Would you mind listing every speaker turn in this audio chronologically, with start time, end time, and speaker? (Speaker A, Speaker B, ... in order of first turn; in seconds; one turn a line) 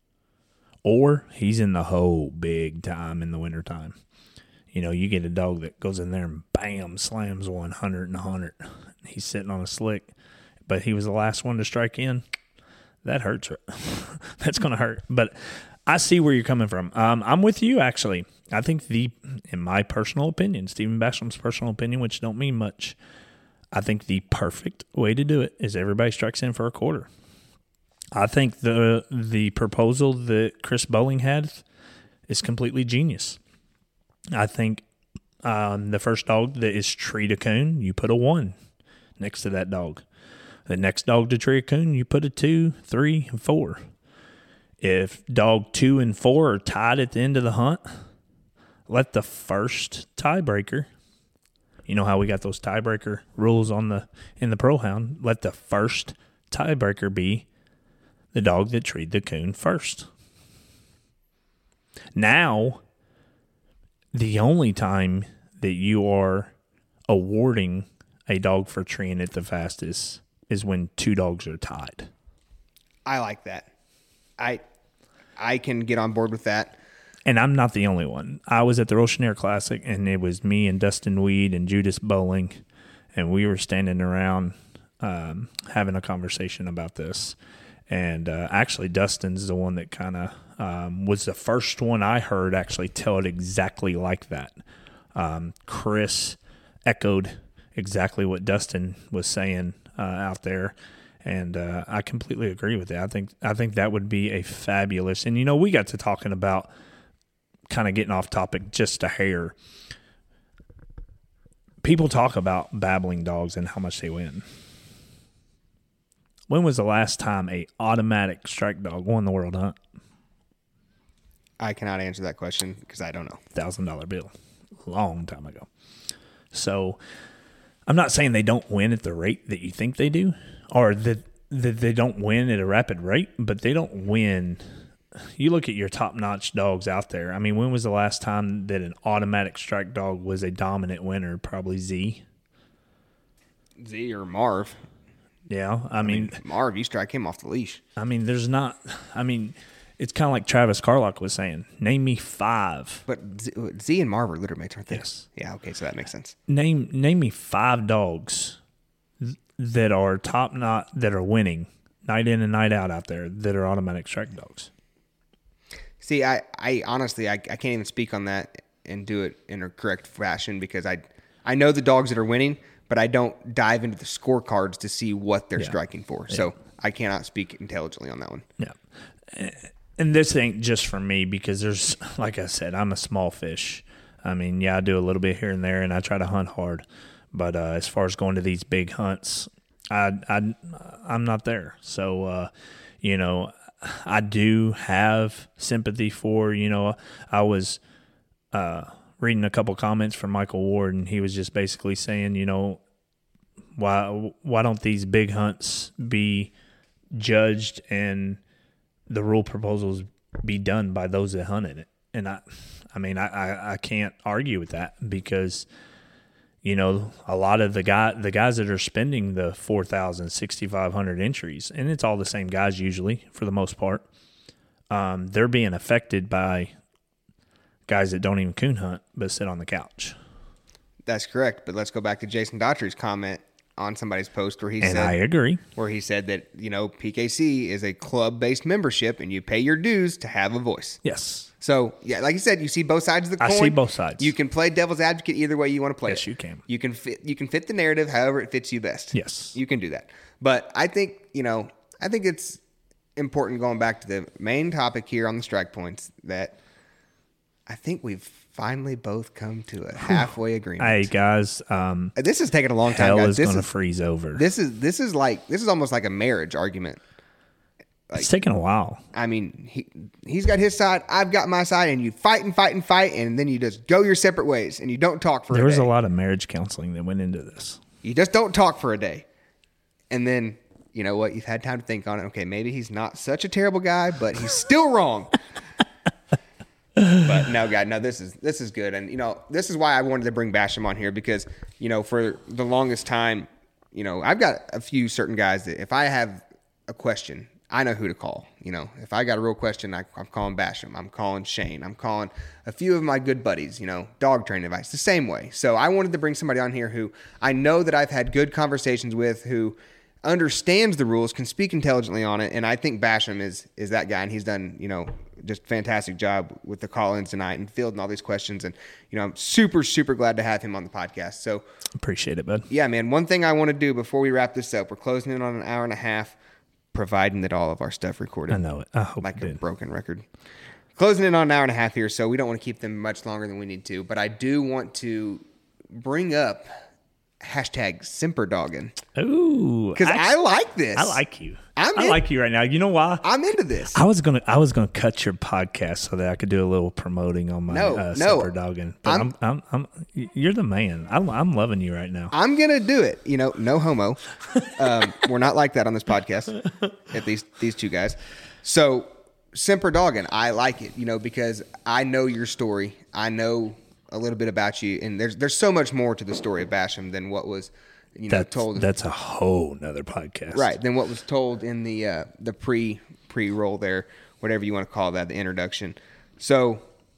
Speaker A: 0.8-4.0
Speaker A: 4.7-10.1
Speaker A: 10.7-12.2
Speaker A: 13.0-15.3
Speaker A: 15.9-22.9
Speaker A: 23.7-27.1
Speaker A: 28.1-31.6
Speaker A: 32.3-33.4
Speaker A: 34.3-34.8
Speaker A: 35.4-38.5
Speaker A: 39.2-40.0
Speaker A: 40.7-43.8
Speaker A: 44.8-47.9
Speaker A: 48.9-50.9
Speaker A: 51.9-57.5
Speaker A: 58.3-60.1
Speaker A: 62.1-62.8
Speaker A: 64.1-66.5
Speaker A: 67.1-72.1
Speaker B: 73.0-73.7
Speaker B: 75.4-76.8
Speaker A: 77.2-82.6
Speaker A: 83.1-87.3
Speaker A: 87.9-94.5
Speaker A: 95.1-106.7
Speaker A: 107.7-109.5
Speaker A: 111.8-114.4
Speaker A: 116.5-119.8
Speaker B: 121.6-123.4
Speaker A: 123.5-124.3
Speaker A: 124.8-125.7
Speaker A: 126.5-127.0
Speaker A: 127.9-134.6
Speaker A: 135.4-142.2
Speaker B: 143.8-144.8
Speaker A: 145.5-146.4
Speaker B: 146.0-147.8
Speaker A: 148.0-153.0
Speaker B: 153.1-156.3
Speaker A: 154.9-155.2
Speaker A: 156.5-158.6
Speaker A: 159.2-164.7
Speaker B: 166.0-178.4
Speaker A: 179.3-192.5
Speaker A: 193.0-197.8
Speaker A: 198.5-202.8
Speaker A: 203.8-206.5
Speaker A: 207.1-208.4
Speaker A: 209.1-215.7
Speaker A: 216.6-224.1
Speaker A: 224.9-226.7
Speaker A: 227.9-230.2
Speaker B: 231.1-235.1
Speaker A: 234.8-235.6
Speaker B: 235.8-241.0
Speaker A: 241.0-241.5
Speaker B: 241.6-252.6
Speaker A: 243.4-244.3
Speaker A: 246.1-246.6
Speaker A: 249.1-249.5
Speaker B: 253.2-256.6
Speaker B: 257.7-261.1
Speaker A: 260.0-262.1
Speaker B: 262.2-263.7
Speaker A: 262.9-264.4
Speaker B: 264.3-267.0
Speaker A: 268.2-269.0
Speaker B: 269.1-275.9
Speaker A: 275.5-277.8
Speaker B: 278.0-279.3
Speaker B: 280.1-285.3
Speaker B: 287.2-321.6
Speaker A: 322.0-322.7
Speaker B: 322.7-326.4
Speaker B: 326.9-328.6
Speaker A: 328.5-329.6
Speaker B: 329.2-330.2
Speaker B: 330.9-336.7
Speaker B: 337.4-338.9
Speaker A: 339.1-340.3
Speaker B: 339.9-341.2
Speaker A: 340.9-343.2
Speaker B: 341.8-342.2
Speaker B: 343.2-344.0
Speaker A: 343.9-352.3
Speaker B: 347.7-348.5
Speaker B: 349.0-349.3
Speaker B: 352.3-368.9
Speaker A: 368.3-370.7
Speaker B: 370.5-376.8